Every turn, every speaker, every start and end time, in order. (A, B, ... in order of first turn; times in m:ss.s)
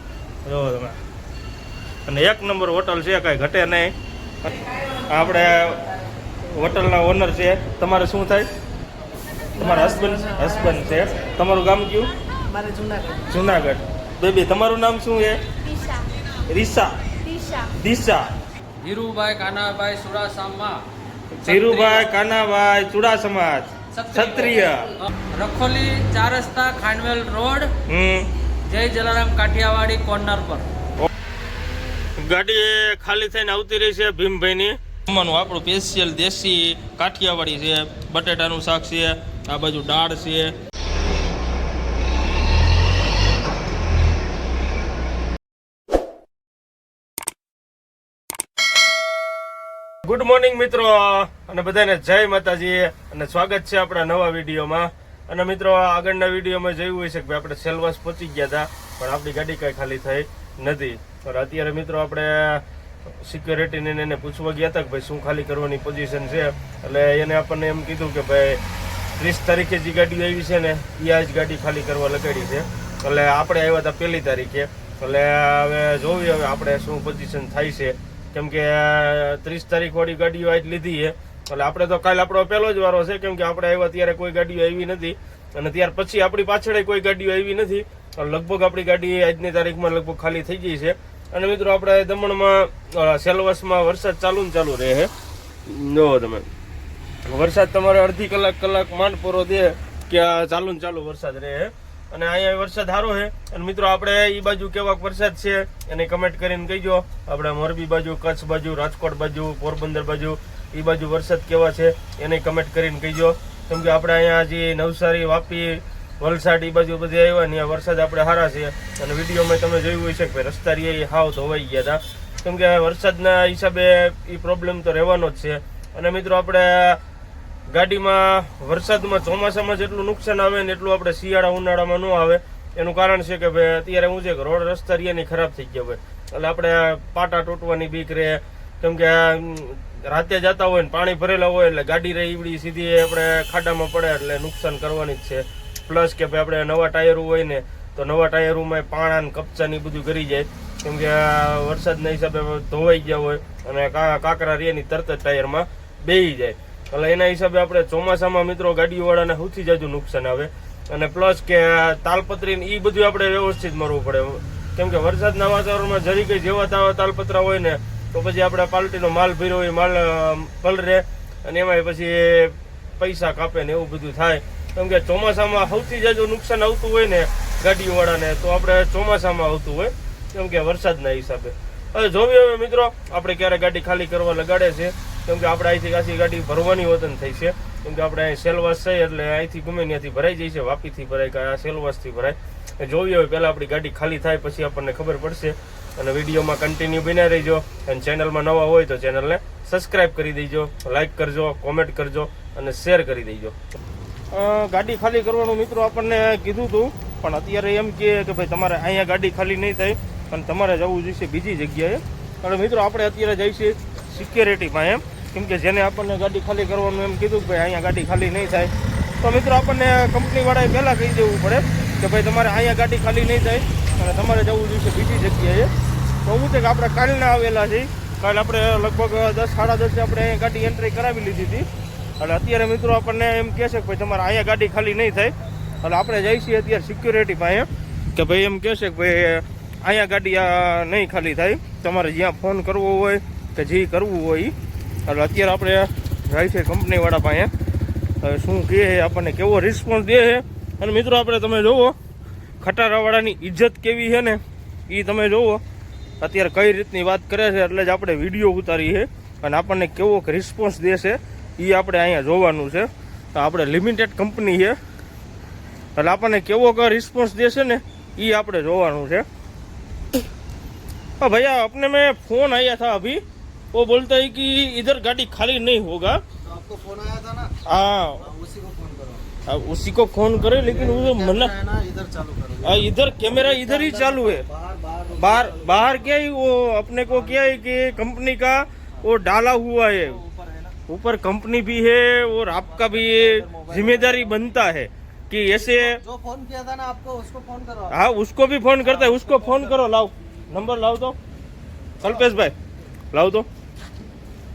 0:00.4-0:01.0 A
0:02.0-0:04.5 A
0:05.1-0:05.8 A
0:06.5-0:08.5 A
0:09.5-0:12.1 A
0:12.5-0:13.2 B
0:13.3-0:15.4 A
0:15.7-0:16.0 B
0:16.5-0:16.9 A
0:17.6-0:18.4 A
0:18.8-0:20.8 B
0:21.3-0:24.9 A
0:21.4-0:22.1 B
0:23.9-0:27.7 B
0:27.9-0:28.3 A
0:28.6-0:30.7 B
0:32.2-0:40.5 A
0:50.0-1:08.6 A
1:09.2-1:35.1 A
1:35.7-1:36.5 A
1:37.2-2:07.0 A
2:07.7-3:23.6 A
3:24.3-3:45.7 A
3:46.2-3:51.7 A
3:52.2-4:04.5 A
4:05.1-4:07.5 A
4:08.2-4:11.9 A
4:12.6-4:15.6 A
4:16.2-4:24.8 A
4:26.0-4:29.2 A
4:31.2-4:33.2 A
4:33.7-4:36.2 A
4:36.4-4:37.5 C
4:37.7-4:38.3 A
4:38.2-4:39.3 C
4:39.5-4:41.6 A
4:40.6-4:42.9 C
4:42.6-4:44.4 A
4:43.5-4:45.9 C
4:45.2-4:50.2 A
4:50.3-4:50.7 C
4:50.9-4:56.0 A
4:52.8-4:54.3 C
4:55.8-4:58.0 C
4:57.9-5:01.2 A
5:02.0-5:02.5 A
5:03.1-5:03.5 A